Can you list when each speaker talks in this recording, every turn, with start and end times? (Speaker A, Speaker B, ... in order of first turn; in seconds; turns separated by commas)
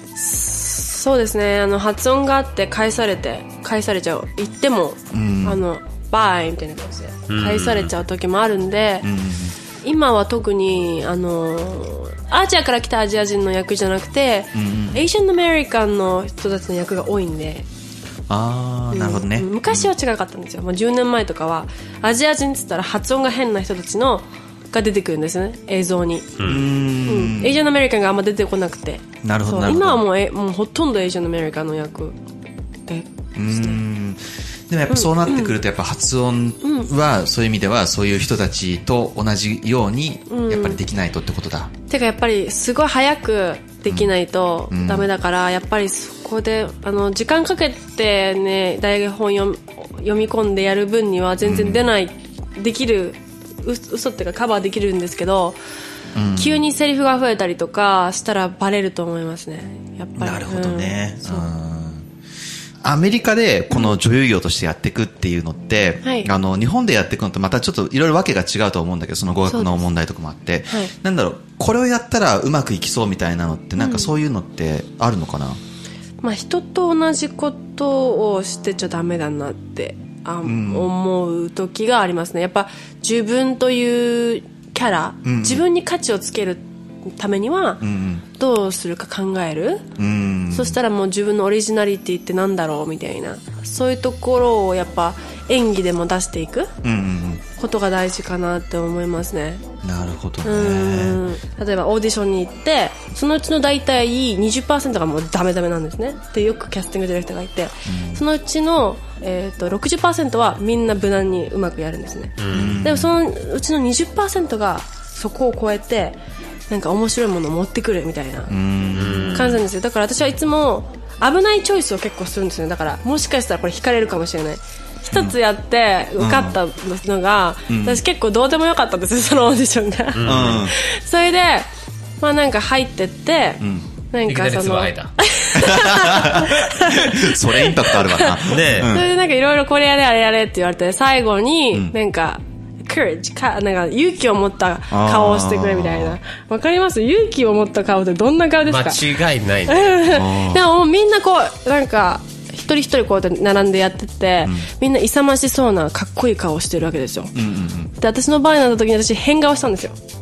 Speaker A: 0.1-9.1, Speaker B: 5.1-5.6, Speaker C: 7.3-7.9, Speaker B: 9.0-9.6, Speaker A: 9.8-17.6, Speaker B: 14.5-15.0, Speaker B: 18.3-19.9, Speaker A: 18.9-26.5, Speaker C: 26.4-26.6, Speaker B: 26.4-27.6, Speaker A: 27.0-32.2, Speaker B: 29.2-30.0, Speaker A: 32.9-33.8, Speaker B: 33.4-41.7, Speaker A: 34.9-35.6, Speaker A: 36.6-36.9, Speaker A: 40.3-40.8, Speaker A: 41.9-55.6, Speaker B: 43.9-44.1, Speaker B: 44.7-45.1, Speaker B: 51.4-51.9, Speaker B: 56.1-56.6, Speaker A: 56.4-61.5, Speaker B: 60.2-62.0, Speaker B: 62.8-75.6, Speaker A: 63.7-64.0, Speaker A: 66.0-66.3, Speaker A: 69.5-69.8, Speaker A: 73.8-74.1, Speaker A: 76.2-89.9, Speaker B: 80.4-80.9, Speaker B: 85.2-85.6, Speaker B: 87.8-88.2, Speaker B: 90.0-90.8, Speaker A: 90.5-96.7, Speaker B: 96.8-97.4, Speaker A: 97.6-99.6, Speaker B: 99.8-101.2, Speaker A: 100.4-116.2, Speaker B: 107.9-108.2, Speaker C: 112.4-112.8, Speaker B: 112.5-113.1, Speaker A: 116.7-118.5, Speaker B: 118.5-119.6, Speaker C: 118.9-119.6, Speaker A: 119.3-131.7, Speaker B: 125.1-125.3, Speaker B: 126.2-126.6, Speaker B: 127.7-128.0, Speaker C: 130.1-130.7, Speaker B: 130.2-130.7, Speaker A: 132.2-149.0, Speaker B: 133.6-133.9, Speaker C: 134.3-135.1, Speaker B: 135.5-139.1, Speaker C: 138.4-139.0, Speaker B: 144.9-146.2, Speaker C: 148.7-150.0, Speaker A: 149.7-157.3, Speaker B: 150.0-150.6, Speaker B: 157.3-157.9, Speaker A: 158.0-160.0